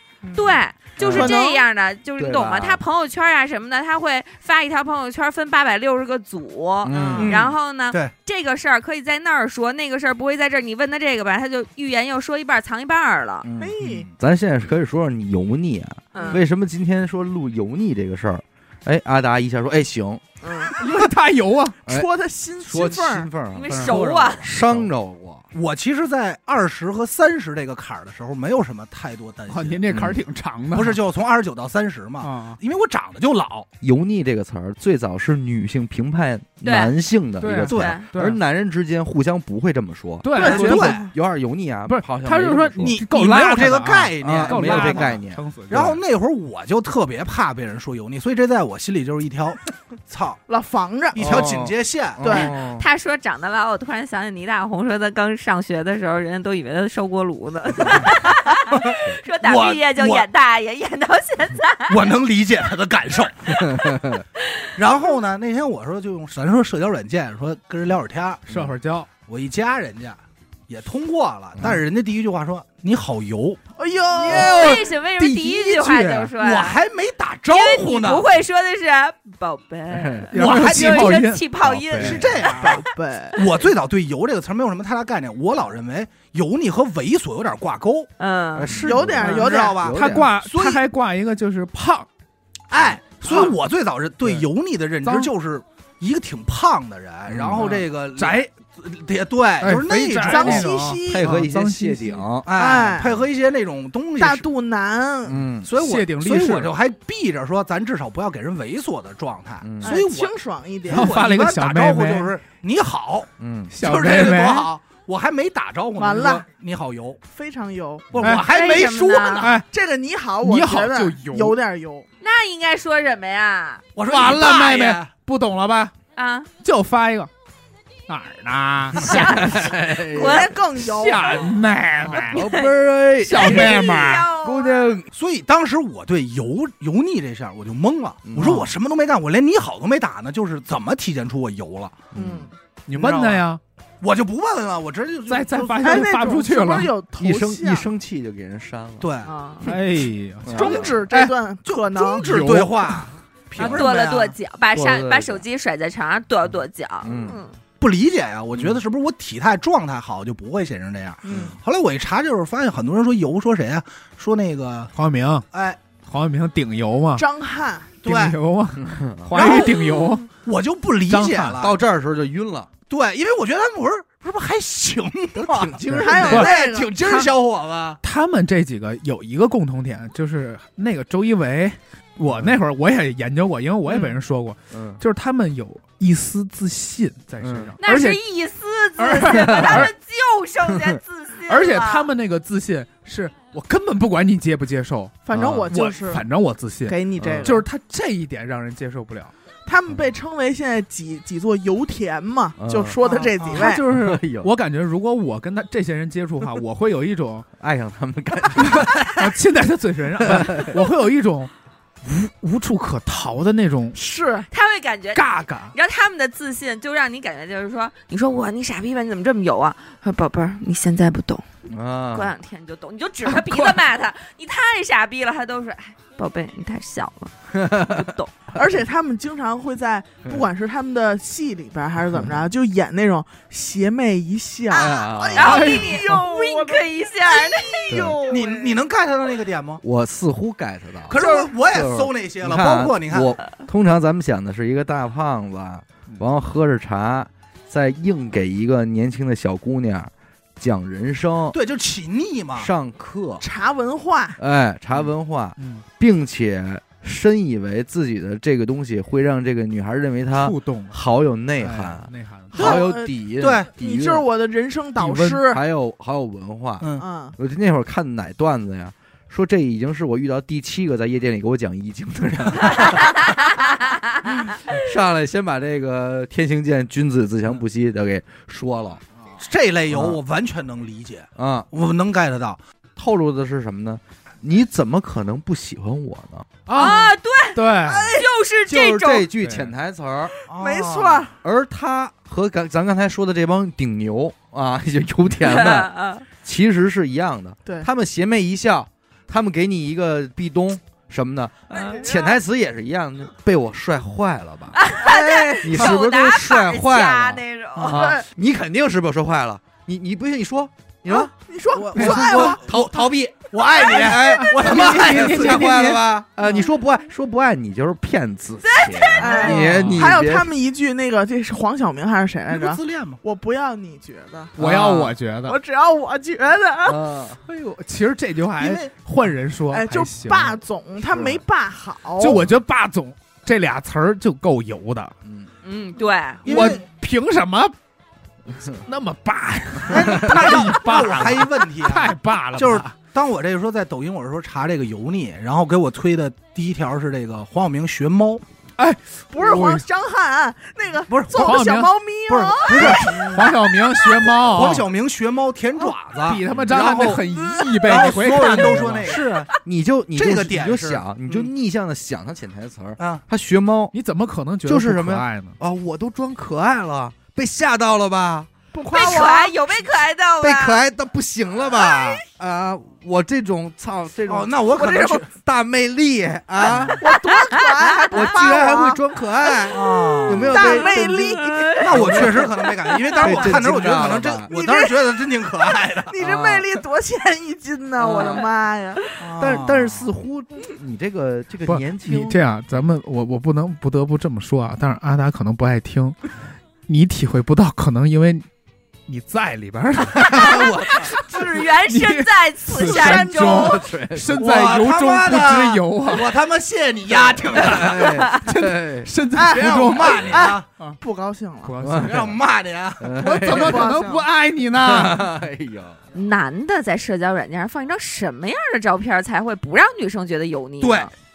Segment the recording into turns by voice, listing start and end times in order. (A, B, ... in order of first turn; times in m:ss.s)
0:00.2-0:00.5 A
0:00.3-0:13.5 B
0:00.4-0:01.4 C
0:01.1-0:01.6 A
0:02.2-0:02.8 C
0:06.8-0:07.4 C
0:06.9-0:07.4 A
0:07.2-0:08.1 D
0:13.4-0:20.2 C
0:13.6-0:14.1 A
0:16.1-0:16.4 B
0:16.1-0:16.4 A
0:20.4-0:20.8 A
0:20.7-0:21.8 E
0:21.9-0:23.3 A
0:22.6-0:25.4 C
0:23.5-0:24.5 B
0:23.7-0:24.8 E
0:25.5-0:30.0 D
0:29.5-0:31.0 E
0:29.9-0:30.2 C
0:30.7-0:33.7 D
0:32.2-0:32.6 E
0:33.8-0:43.0 C
0:36.6-0:36.9 B
0:37.4-0:38.4 E
0:37.7-0:38.0 D
0:37.7-0:38.1 B
0:40.2-0:40.9 E
0:40.3-0:41.1 A
0:40.3-0:41.1 D
0:41.9-0:46.0 E
0:42.8-0:50.4 D
0:44.2-0:45.9 C
0:50.5-0:51.5 A
0:51.1-0:52.4 D
0:51.2-0:52.8 C
0:52.2-0:52.5 A
0:52.6-1:02.1 B
0:58.8-1:00.2 D
1:01.9-1:03.9 D
1:03.6-1:04.2 C
1:04.8-1:08.5 D
1:08.5-1:09.1 E
1:09.2-1:13.6 D
1:11.6-1:11.8 C
1:13.8-1:14.9 A
1:14.2-1:16.8 B
1:14.3-1:16.3 E
1:16.3-1:18.3 D
1:17.5-1:22.8 B
1:19.9-1:20.3 C
1:20.3-1:21.4 E
1:20.3-1:21.2 D
1:21.6-1:22.5 C
1:22.0-1:28.1 D
1:22.6-1:23.4 A
1:28.2-1:28.8 B
1:28.6-1:30.3 C
1:28.6-1:30.8 D
1:28.8-1:29.8 A
1:29.4-1:32.1 E
1:32.7-1:41.0 D
1:33.2-1:33.5 A
1:35.0-1:35.3 E
1:37.3-1:37.8 C
1:37.5-1:38.5 E
1:39.6-1:42.2 E
1:40.2-1:41.4 A
1:41.0-1:43.2 C
1:42.4-1:44.5 D
1:42.5-1:43.1 A
1:44.2-1:45.4 A
1:45.3-1:45.7 C
1:45.6-1:50.4 D
1:45.8-1:46.7 E
1:49.6-1:50.0 C
1:49.8-1:51.1 A
1:50.9-1:57.2 D
1:50.9-1:52.3 E
1:53.4-1:53.7 C
1:53.7-1:54.7 E
1:56.0-1:56.5 A
1:57.3-1:58.1 A
1:58.1-1:59.6 D
1:58.2-1:58.5 E
1:58.4-1:59.5 B
1:59.4-1:59.6 E
1:59.7-2:02.0 A
2:00.4-2:01.5 E
2:02.2-2:03.9 B
2:04.0-2:05.1 D
2:04.0-2:05.9 E
2:06.1-2:06.5 B
2:06.6-2:07.3 E
2:08.1-2:09.4 E
2:08.9-2:10.5 B
2:09.0-2:10.5 C
2:10.1-2:11.5 A
2:10.8-2:12.4 E
2:12.1-2:13.8 C
2:12.2-2:12.7 B
2:13.2-2:14.3 E
2:13.3-2:14.8 B
2:14.4-2:15.1 C
2:15.1-2:22.1 D
2:18.2-2:18.7 C
2:18.4-2:18.7 E
2:22.1-2:22.5 C
2:22.2-2:22.5 A
2:22.9-2:23.6 E
2:22.9-2:23.4 D
2:24.0-2:26.1 D
2:25.3-2:26.9 E
2:25.8-2:27.9 A
2:27.2-2:29.1 C
2:29.0-2:29.3 D
2:29.2-2:29.7 B
2:29.6-2:31.3 E
2:30.4-2:30.9 C
2:30.5-2:32.4 A
2:30.6-2:34.4 D
2:32.2-2:33.0 E
2:33.6-2:33.9 C
2:33.6-2:37.5 B
2:34.7-2:35.4 C
2:37.0-2:37.4 C
2:37.8-2:44.9 D
2:38.5-2:38.8 C
2:41.2-2:41.5 A
2:44.9-2:45.4 E
2:45.5-2:45.8 D
2:46.0-2:47.2 E
2:47.2-2:47.9 A
2:48.0-2:48.4 D
2:48.0-2:50.3 E
2:48.8-2:49.6 C
2:49.4-2:49.7 D
2:50.4-2:51.8 D
2:51.1-2:51.6 E
2:51.6-2:52.7 C
2:52.9-2:58.0 D
2:55.4-2:56.4 C
2:55.9-2:57.3 E
2:55.9-2:56.9 A
2:58.0-3:08.2 E
3:02.3-3:02.6 C
3:04.7-3:05.0 C
3:07.4-3:07.7 C
3:07.8-3:12.1 B
3:09.0-3:09.9 E
3:09.4-3:09.9 C
3:10.7-3:11.0 C
3:11.4-3:19.3 E
3:15.2-3:16.2 A
3:15.3-3:15.7 C
3:16.8-3:17.6 A
3:17.2-3:17.6 C
3:19.6-3:23.8 A
3:22.6-3:23.0 C
3:23.5-3:27.5 E
3:23.6-3:24.5 C
3:27.6-3:29.0 C
3:28.7-3:31.5 E
3:30.2-3:30.8 C
3:32.0-3:34.0 E
3:33.9-3:34.5 A
3:34.5-3:41.4 B
3:35.1-3:35.8 E
3:41.7-3:42.3 C
3:42.1-3:48.3 B
3:43.2-3:43.8 E
3:47.5-3:48.1 C
3:48.5-3:58.7 A
3:54.7-3:55.7 C
3:54.7-3:58.5 B
3:55.4-3:56.1 E
3:57.9-3:58.2 C
3:58.3-3:59.8 D
3:59.8-4:11.6 C
4:01.1-4:03.4 D
4:01.2-4:01.5 A
4:11.5-4:12.7 D
4:12.5-4:13.4 C
4:13.4-4:14.4 A
4:14.4-4:24.2 C
4:15.6-4:15.8 E
4:20.3-4:21.0 E
4:21.6-4:22.7 E
4:22.5-4:23.1 A
4:22.6-4:22.8 D
4:23.4-4:23.7 D
4:23.6-4:25.6 A
4:25.0-4:33.3 C
4:27.0-4:27.4 A
4:34.6-4:39.0 C
4:39.4-4:42.6 D
4:39.9-4:40.2 C
4:41.4-4:41.7 C
4:43.0-4:46.6 C
4:46.6-4:48.2 E
4:46.7-4:47.6 B
4:47.9-4:48.3 A
4:48.1-4:49.3 B
4:48.7-4:50.3 C
4:49.4-4:49.7 E
4:50.5-4:51.2 D
4:50.5-4:51.3 A
4:51.4-5:04.8 C
4:55.4-4:56.2 B
5:01.7-5:02.1 B
5:01.7-5:02.0 A
5:04.8-5:08.1 B
5:05.0-5:05.7 A
5:05.6-5:11.3 C
5:07.9-5:08.2 A
5:11.1-5:12.6 A
5:11.7-5:15.9 D
5:11.9-5:20.5 C
5:14.4-5:16.0 E
5:18.6-5:19.7 B
5:19.2-5:24.6 A
5:19.6-5:20.0 E
5:22.5-5:23.2 D
5:24.6-5:25.6 E
5:24.6-5:25.2 C
5:25.4-5:27.0 A
5:26.8-5:27.4 C
5:27.5-5:30.6 E
5:28.6-5:28.9 D
5:29.7-5:32.5 A
5:31.1-5:31.4 C
5:32.2-5:35.1 E
5:35.6-5:36.5 B
5:36.4-5:36.8 D
5:36.5-5:37.7 E
5:38.7-5:43.0 E
5:39.9-5:40.5 C
5:39.9-5:48.4 D
5:48.8-5:49.8 E
5:49.3-5:53.4 A
5:51.1-5:51.6 D
5:51.3-5:51.9 E
5:52.3-5:53.6 D
5:52.9-5:54.9 E
5:54.3-5:57.2 D
5:56.2-5:59.1 E
5:57.3-5:57.7 A
5:57.8-5:59.3 D
5:59.0-6:03.9 C
6:00.2-6:01.5 D
6:03.9-6:05.6 E
6:04.6-6:08.5 C
6:08.7-6:09.6 A
6:08.9-6:10.8 B
6:10.4-6:17.0 C
6:14.3-6:15.3 D
6:16.6-6:16.9 D
6:17.0-6:19.0 A
6:17.3-6:18.4 B
6:18.1-6:22.5 C
6:19.7-6:20.8 D
6:20.5-6:22.5 A
6:20.6-6:23.4 B
6:21.8-6:26.1 D
6:23.2-6:24.5 C
6:24.5-6:25.3 A
6:26.0-6:29.0 A
6:26.2-6:26.6 C
6:28.0-6:28.5 C
6:28.2-6:28.4 B
6:29.2-6:30.1 D
6:29.4-6:32.4 C
6:31.6-6:36.2 E
6:36.9-6:38.5 E
6:39.1-6:46.3 E
6:40.2-6:41.1 C
6:40.2-6:43.8 B
6:42.7-6:43.8 A
6:43.5-6:44.5 C
6:44.4-6:48.3 D
6:47.1-6:49.1 C
6:48.3-6:51.0 E
6:49.3-6:51.8 A
6:49.5-6:50.7 D
6:51.6-6:52.4 E
6:51.8-6:52.4 C
6:52.0-6:53.6 D
6:53.0-6:53.9 C
6:53.2-6:55.3 E
6:53.4-6:54.3 A
6:54.8-6:56.0 C
6:56.1-7:01.1 B
7:00.8-7:01.1 D